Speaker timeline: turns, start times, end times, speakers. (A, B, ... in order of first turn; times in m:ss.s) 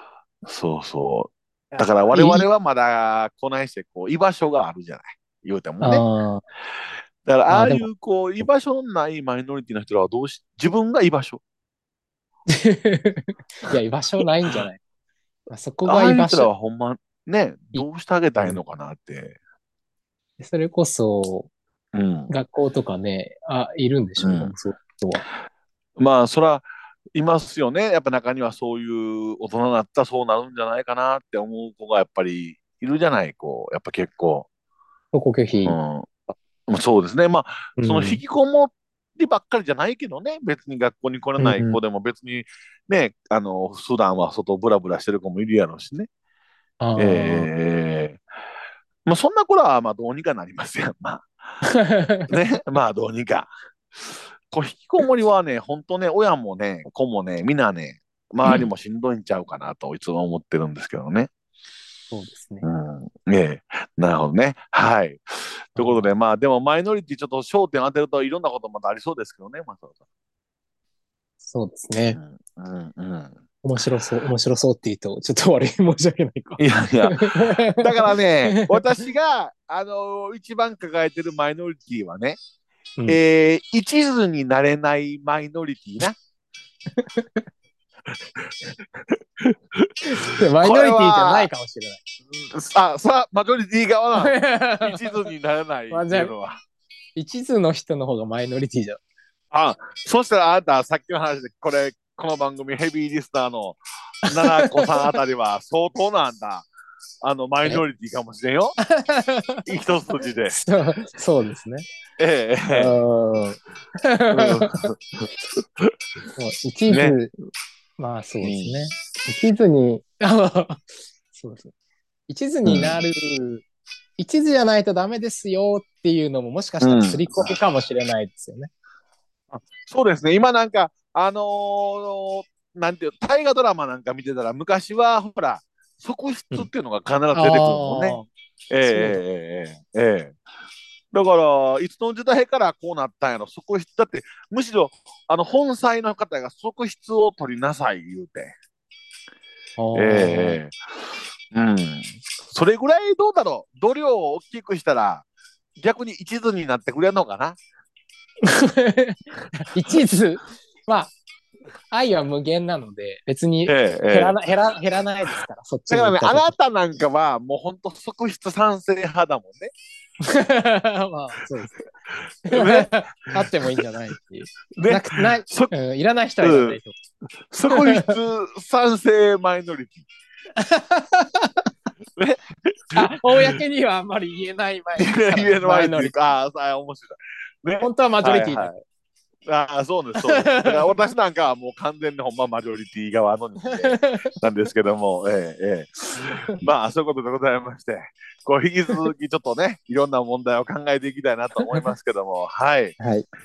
0:00.4-0:06.0 A
0:01.7-0:02.5 B
0:05.8-0:06.4 B
0:07.2-0:11.4 A
0:07.5-0:07.9 B
0:12.5-0:14.8 B
0:15.5-0:16.5 B
0:15.8-0:19.4 A
0:20.4-0:21.5 B
0:21.9-0:22.3 A
0:22.3-0:25.2 B
0:24.2-0:24.5 A
0:26.0-0:34.5 A
0:35.1-0:35.8 B
0:35.6-0:46.1 A
0:37.8-0:38.2 B
0:41.4-0:41.8 B
0:46.8-0:47.5 B
0:47.0-0:48.2 A
0:49.0-0:51.3 A
0:51.6-0:52.3 B
0:52.3-1:01.3 A
1:02.1-1:02.7 B
1:02.6-1:09.9 A
1:05.8-1:06.1 B
1:11.4-1:12.2 B
1:12.1-1:13.4 A
1:13.6-1:19.0 B
1:16.6-1:22.4 A
1:23.1-1:26.2 A
1:27.0-1:27.4 B
1:29.1-1:30.0 A
1:30.0-1:32.0 B
1:30.6-1:31.5 A
1:32.5-1:36.6 A
1:34.1-1:35.1 B
1:35.9-1:36.3 B
1:37.2-1:39.0 B
1:39.5-1:46.7 A
1:44.3-1:45.2 B
1:47.2-1:48.8 A
1:48.8-1:49.6 B
1:49.6-1:50.6 A
1:50.5-1:51.9 B
1:52.2-1:53.0 A
1:52.7-1:54.8 B
1:54.3-1:55.9 A
1:56.3-1:57.3 B
1:56.9-1:57.2 A
1:58.0-2:01.7 B
1:58.4-1:58.8 A
2:02.3-2:03.6 B
2:02.6-2:03.0 A
2:04.2-2:08.7 B
2:06.8-2:07.5 A
2:09.5-2:20.4 A
2:17.3-2:18.3 B
2:18.8-2:19.2 B
2:21.1-2:28.5 A
2:29.8-2:30.6 B
2:29.9-2:30.8 A
2:31.5-2:35.2 A
2:35.8-2:37.6 A
2:38.4-2:41.1 B
2:41.9-2:46.5 B
2:43.7-2:44.4 A
2:45.9-2:49.7 A
2:50.2-2:51.9 B
2:52.5-2:57.0 B
2:52.5-2:53.8 A
2:54.7-2:55.7 A
2:56.4-2:56.8 A
2:57.5-3:00.0 A
2:57.7-2:58.2 B
3:00.6-3:01.6 B
3:02.2-3:03.6 A
3:02.9-3:06.1 B
3:05.0-3:08.7 A
3:07.8-3:08.8 B
3:09.4-3:23.0 A
3:10.2-3:10.9 B
3:13.7-3:14.2 B
3:16.2-3:16.6 B
3:23.0-3:23.2 B